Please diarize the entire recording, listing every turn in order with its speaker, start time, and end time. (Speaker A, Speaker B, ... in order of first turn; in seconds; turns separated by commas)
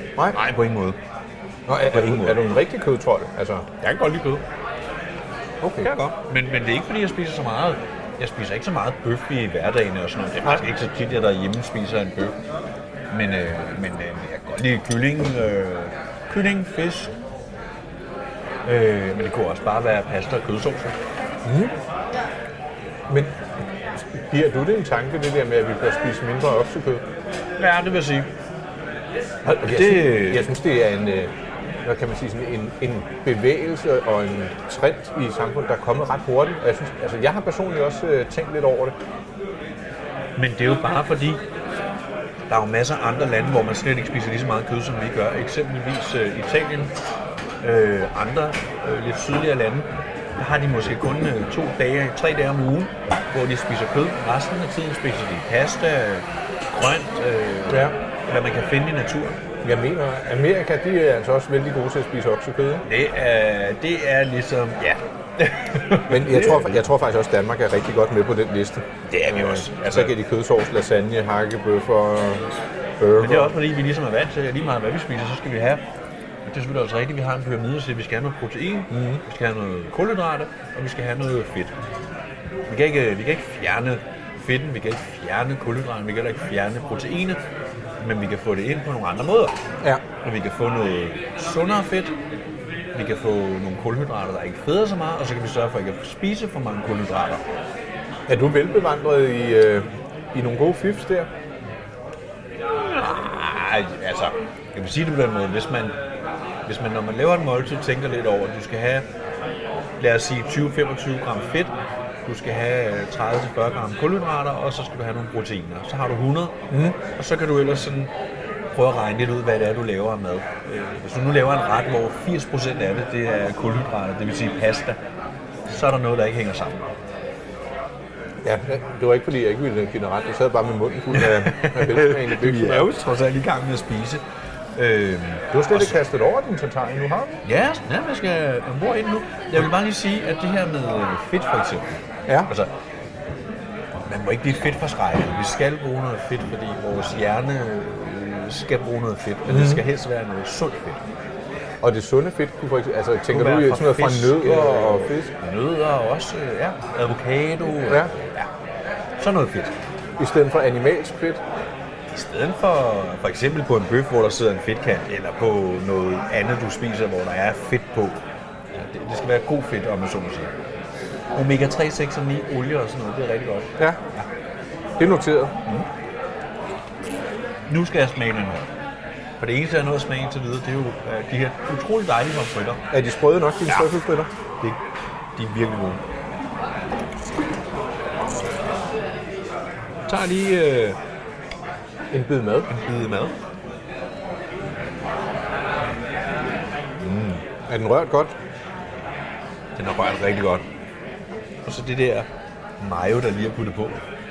Speaker A: 0.3-1.0, Speaker B: 1.7-3.7, Speaker A: 1.8-2.5, Speaker A: 3.8-4.4, Speaker B: 5.6-5.9, Speaker A: 5.8-12.4, Speaker A: 13.1-17.1, Speaker A: 18.6-21.0, Speaker B: 21.4-21.7, Speaker B: 23.1-23.4, Speaker B: 23.9-27.0, Speaker A: 27.6-28.3, Speaker B: 29.4-31.3, Speaker A: 29.5-30.5, Speaker B: 31.8-39.0, Speaker A: 40.4-41.4, Speaker A: 42.5-46.9, Speaker A: 47.6-59.4, Speaker B: 57.7-58.0, Speaker B: 59.6-62.9, Speaker A: 62.9-66.8, Speaker B: 66.1-73.6, Speaker A: 69.1-70.2, Speaker A: 73.2-75.8, Speaker A: 76.4-81.8, Speaker B: 78.9-79.2, Speaker A: 82.7-87.4, Speaker A: 88.0-89.6, Speaker A: 90.2-92.2, Speaker A: 92.9-97.4, Speaker B: 98.3-101.3, Speaker A: 102.7-106.0, Speaker A: 106.7-109.0, Speaker A: 110.0-116.6, Speaker B: 116.7-117.0, Speaker A: 117.1-118.1, Speaker A: 118.7-125.0, Speaker A: 125.7-126.9, Speaker B: 128.4-132.9, Speaker A: 131.1-134.2, Speaker A: 134.8-136.0, Speaker B: 135.5-137.4, Speaker A: 137.4-142.7, Speaker A: 144.1-151.0, Speaker B: 149.5-149.8, Speaker B: 151.8-155.3, Speaker A: 153.3-158.5, Speaker A: 159.2-159.7, Speaker B: 160.2-161.4, Speaker A: 162.1-170.5, Speaker A: 171.3-174.3, Speaker B: 175.0-175.5, Speaker A: 177.7-178.7, Speaker A: 179.4-182.8, Speaker B: 182.9-184.3, Speaker A: 185.4-186.0, Speaker A: 190.1-191.0, Speaker B: 192.1-192.7, Speaker A: 192.7-193.4, Speaker B: 197.2-198.3, Speaker A: 199.8-200.7, Speaker A: 201.7-202.3, Speaker A: 202.8-204.0